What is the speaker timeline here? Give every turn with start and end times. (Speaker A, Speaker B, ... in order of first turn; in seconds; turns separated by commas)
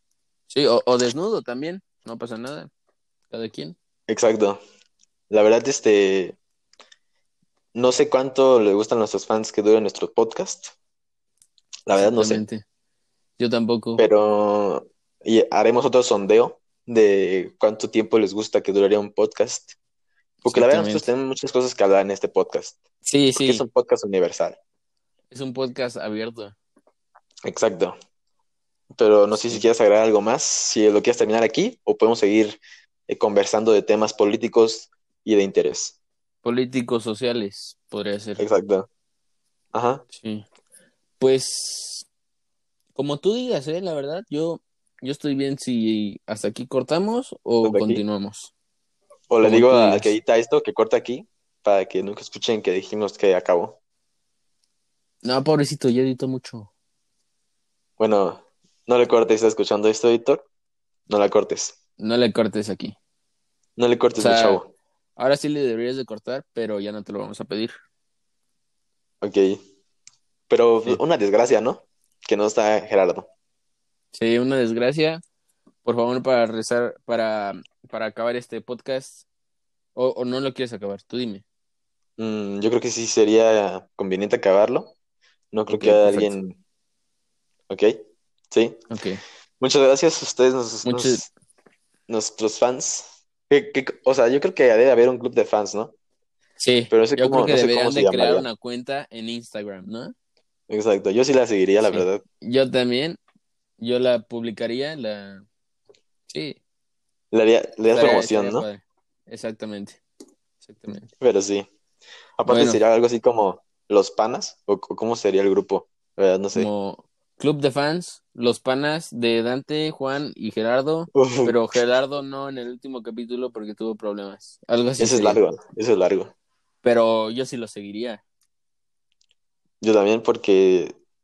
Speaker A: 0.5-2.7, Speaker A: 3.3-3.8, Speaker B: 4.1-4.6, Speaker B: 5.3-6.4, Speaker B: 7.7-10.7, Speaker B: 11.8-12.4, Speaker A: 11.9-12.6, Speaker A: 13.4-14.0, Speaker B: 14.0-19.7, Speaker B: 20.4-22.8, Speaker A: 20.4-21.1, Speaker A: 23.0-23.6, Speaker B: 23.3-24.6, Speaker A: 25.3-26.6, Speaker B: 27.4-27.9, Speaker B: 28.9-36.0, Speaker A: 36.4-38.4, Speaker B: 38.4-38.9, Speaker B: 39.7-40.0, Speaker A: 40.1-40.4, Speaker A: 41.2-42.0, Speaker A: 42.9-48.5, Speaker B: 47.6-48.0, Speaker B: 49.3-53.8, Speaker A: 49.4-50.1, Speaker A: 55.2-56.7, Speaker B: 58.0-60.5, Speaker B: 61.1-61.7, Speaker A: 62.0-63.0, Speaker B: 63.8-64.7, Speaker A: 64.2-64.6, Speaker A: 65.2-67.7, Speaker B: 69.2-69.6, Speaker B: 70.5-73.3, Speaker A: 74.1-75.2, Speaker A: 75.8-79.2, Speaker A: 80.0-81.4, Speaker B: 82.2-84.9, Speaker B: 85.5-86.6, Speaker A: 85.7-86.3, Speaker B: 87.7-87.9, Speaker B: 88.5-88.8, Speaker A: 88.9-89.2, Speaker B: 89.6-91.2, Speaker A: 90.8-91.2, Speaker B: 92.1-95.9, Speaker A: 96.6-100.1, Speaker B: 96.9-98.5, Speaker B: 100.7-102.2, Speaker A: 101.8-103.2, Speaker A: 103.8-105.4, Speaker A: 106.3-106.6, Speaker B: 107.3-108.7, Speaker A: 107.9-110.0, Speaker A: 110.6-111.1, Speaker B: 111.2-111.7, Speaker B: 112.4-116.7, Speaker A: 112.5-112.8, Speaker A: 116.5-125.4, Speaker B: 121.1-121.5, Speaker B: 125.0-126.3, Speaker A: 126.8-128.2, Speaker B: 129.8-130.9